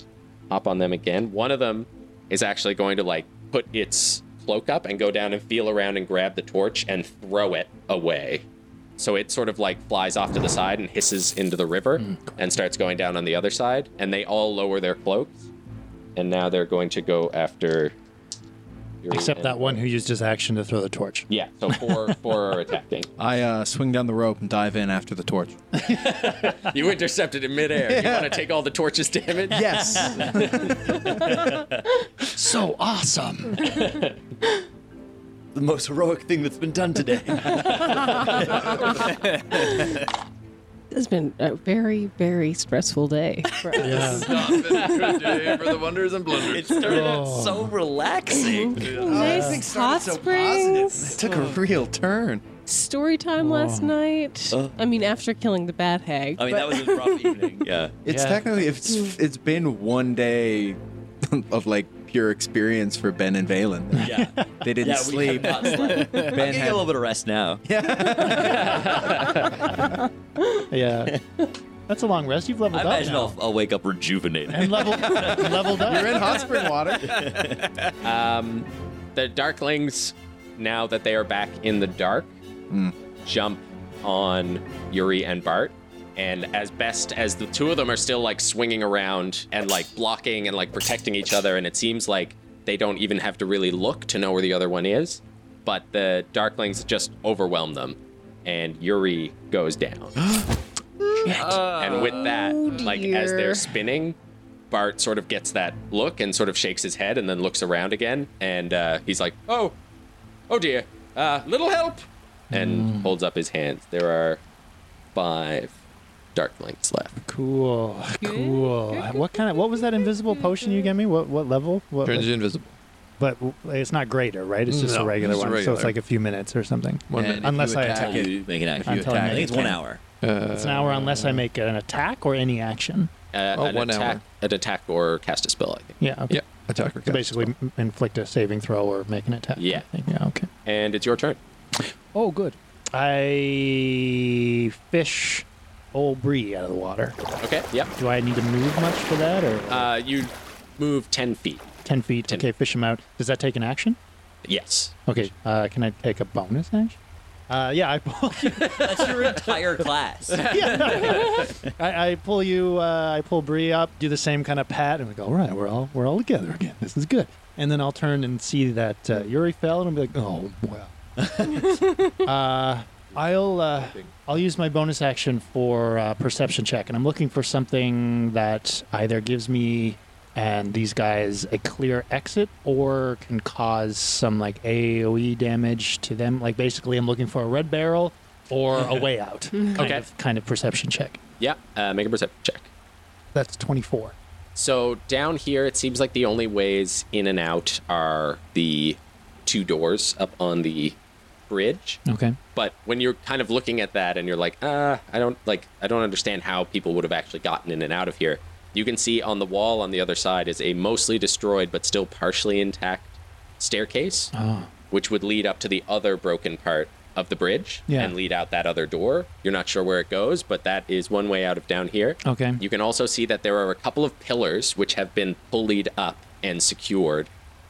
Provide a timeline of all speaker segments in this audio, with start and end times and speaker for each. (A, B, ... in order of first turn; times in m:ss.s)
0:00.5-0:08.4 A
0:09.0-0:15.5 A
0:12.0-0:12.4 B
0:16.2-0:17.9 A
0:19.0-0:19.8 A
0:19.1-0:22.0 B
0:21.3-0:23.1 A
0:23.2-0:25.6 C
0:25.9-0:30.1 A
0:27.8-0:28.4 C
0:29.5-0:31.1 C
0:30.0-0:30.4 D
0:31.2-0:31.8 D
0:32.4-0:33.8 B
0:33.6-0:34.2 A
0:35.5-0:39.0 D
0:40.9-0:45.8 E
0:43.7-0:47.2 F
0:43.8-0:44.4 B
0:46.3-0:49.0 D
0:46.8-0:47.8 B
0:48.3-0:51.2 E
0:48.8-0:49.5 F
0:49.1-0:52.4 C
0:49.2-0:49.6 B
0:52.7-0:57.7 E
0:53.4-0:53.9 B
0:54.5-0:54.8 D
0:56.4-0:58.0 D
0:58.0-1:04.1 C
0:58.1-0:58.4 B
1:03.9-1:04.7 B
1:04.0-1:07.6 D
1:04.6-1:06.9 C
1:07.6-1:09.0 C
1:08.4-1:09.5 A
1:10.7-1:11.2 B
1:11.9-1:13.4 B
1:12.7-1:17.9 D
1:14.5-1:16.2 B
1:15.8-1:17.2 C
1:18.0-1:22.3 A
1:22.7-1:23.0 C
1:23.3-1:40.2 A
1:41.2-1:42.3 F
1:41.3-1:44.2 A
1:41.3-1:43.8 E
1:44.7-1:49.8 A
1:50.5-1:54.4 A
1:52.5-1:53.1 B
1:55.2-1:55.7 A
1:56.4-1:57.2 A
1:57.2-2:02.3 B
1:58.2-2:00.9 E
2:02.0-2:02.7 F
2:03.2-2:08.3 B
2:04.7-2:06.0 F
2:07.1-2:07.5 F
2:07.2-2:09.8 C
2:07.9-2:10.0 D
2:08.8-2:09.8 B
2:10.2-2:11.4 F
2:10.5-2:13.1 B
2:13.3-2:16.0 A
2:13.5-2:14.2 F
2:16.0-2:16.4 B
2:16.3-2:17.5 F
2:17.0-2:20.5 B
2:19.6-2:19.9 A
2:20.7-2:21.4 A
2:22.1-2:27.2 B
2:27.4-2:27.9 A
2:28.0-2:29.9 B
2:29.7-2:31.7 A
2:31.8-2:34.0 B
2:34.4-2:35.0 A
2:35.1-2:37.0 B
2:37.5-2:39.4 B
2:38.8-2:41.2 D
2:40.4-2:41.2 A
2:40.4-2:51.0 B
2:52.2-3:11.2 B
3:09.6-3:09.9 E
3:09.8-3:10.0 A
3:11.4-3:12.7 A
3:13.4-3:14.2 B
3:14.6-3:21.0 A
3:21.5-3:22.0 A
3:22.1-3:22.4 B
3:22.6-3:34.3 A
3:34.3-3:34.7 B
3:34.9-3:47.3 A
3:37.9-3:38.1 B
3:42.2-3:42.6 B